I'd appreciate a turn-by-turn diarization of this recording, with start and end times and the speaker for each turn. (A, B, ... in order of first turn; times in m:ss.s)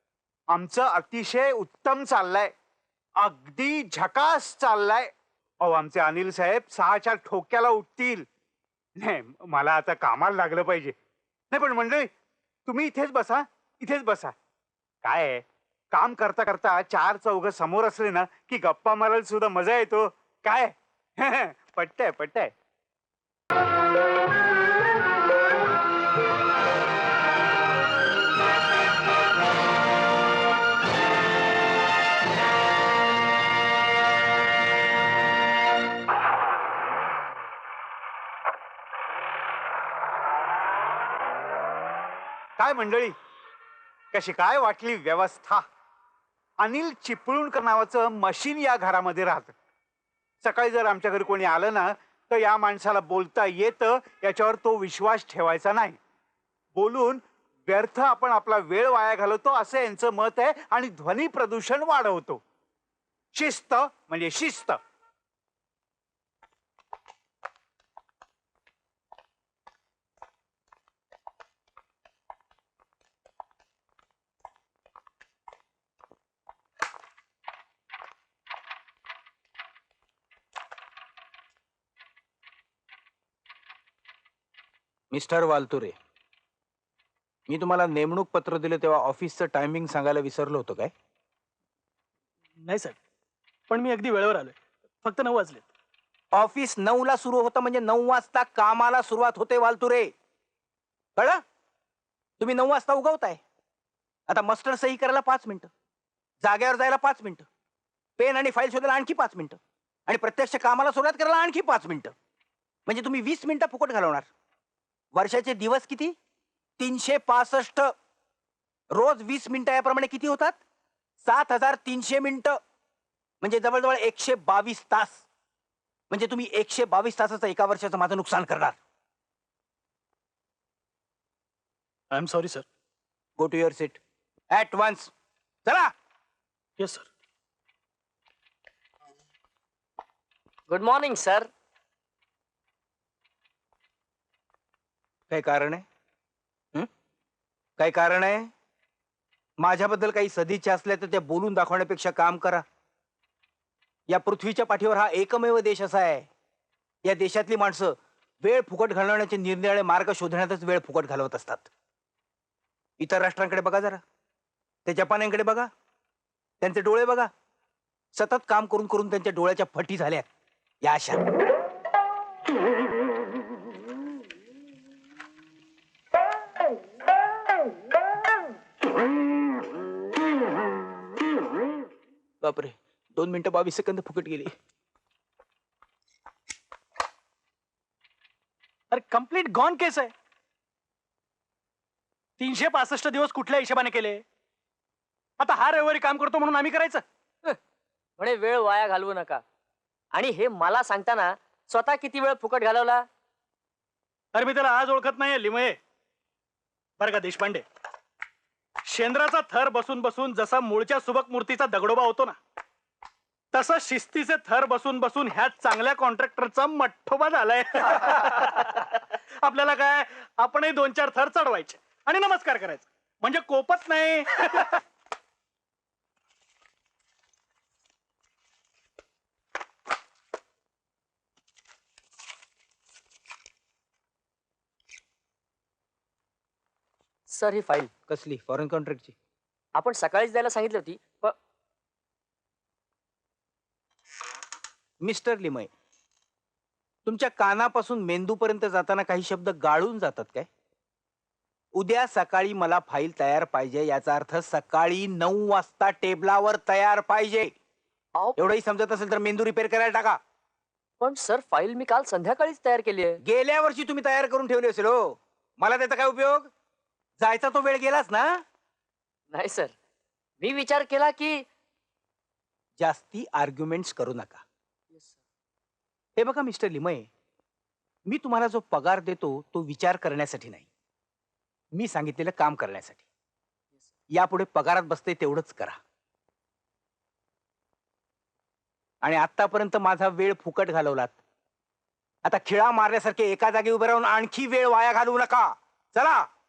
0:00.5-0:02.5 A
0:03.2-0:08.3 A
0:09.0-0:11.0 A
0:11.5-0:12.1 A
0:12.7-0:14.3 A
0:15.0-0:22.5 A
0:42.6-0:43.2 A
0:44.1-0:45.7 A
0:46.6-0:49.6 A
0:50.4-0:56.0 A
0:56.8-1:02.4 A
1:03.3-1:04.8 A
1:25.1-1:26.0 B
1:27.5-1:30.9 B
1:32.6-1:33.0 C
1:33.7-1:35.7 C
1:36.3-1:40.1 B
1:41.2-1:41.4 B
1:42.4-1:43.4 B
1:44.3-1:45.7 B
1:46.4-1:47.5 B
1:48.2-1:52.1 B
1:52.9-1:54.3 B
1:55.1-1:56.1 B
1:56.8-1:57.9 B
1:58.9-2:00.6 B
2:01.2-2:02.6 B
2:03.4-2:05.3 B
2:06.1-2:08.8 B
2:12.1-2:12.6 C
2:13.4-2:15.1 B
2:15.6-2:15.9 B
2:16.8-2:17.1 C
2:20.7-2:21.5 D
2:25.3-2:25.8 B
2:27.8-2:28.5 B
2:29.6-2:32.6 B
2:34.1-2:36.3 B
2:37.0-2:41.7 B
2:43.0-2:44.0 B
2:44.9-2:45.7 B
2:46.6-2:47.3 B
2:48.1-2:50.3 B
2:50.8-2:51.2 B
3:02.4-3:04.5 B
3:08.9-3:10.1 C
3:12.4-3:14.2 C
3:15.4-3:17.0 C
3:18.2-3:19.4 D
3:20.1-3:23.0 D
3:24.3-3:25.8 C
3:27.0-3:27.6 C
3:28.9-3:32.4 C
3:33.5-3:44.8 C
3:57.3-3:57.9 D
3:58.1-3:59.2 B
3:59.8-4:01.4 D
4:05.0-4:05.7 B
4:07.1-4:10.5 B
4:11.8-4:17.5 B
4:18.4-4:20.2 B
4:21.0-4:23.2 D
4:23.2-4:26.5 B
4:27.2-4:28.4 B
4:29.3-4:29.8 D
4:30.4-4:31.4 D
4:32.8-4:34.4 B
4:34.9-4:35.2 D
4:36.2-4:37.1 B
4:38.1-4:40.7 B
4:41.8-4:43.0 B
4:44.1-4:45.8 B
4:49.0-4:51.2 B
4:52.2-4:56.3 B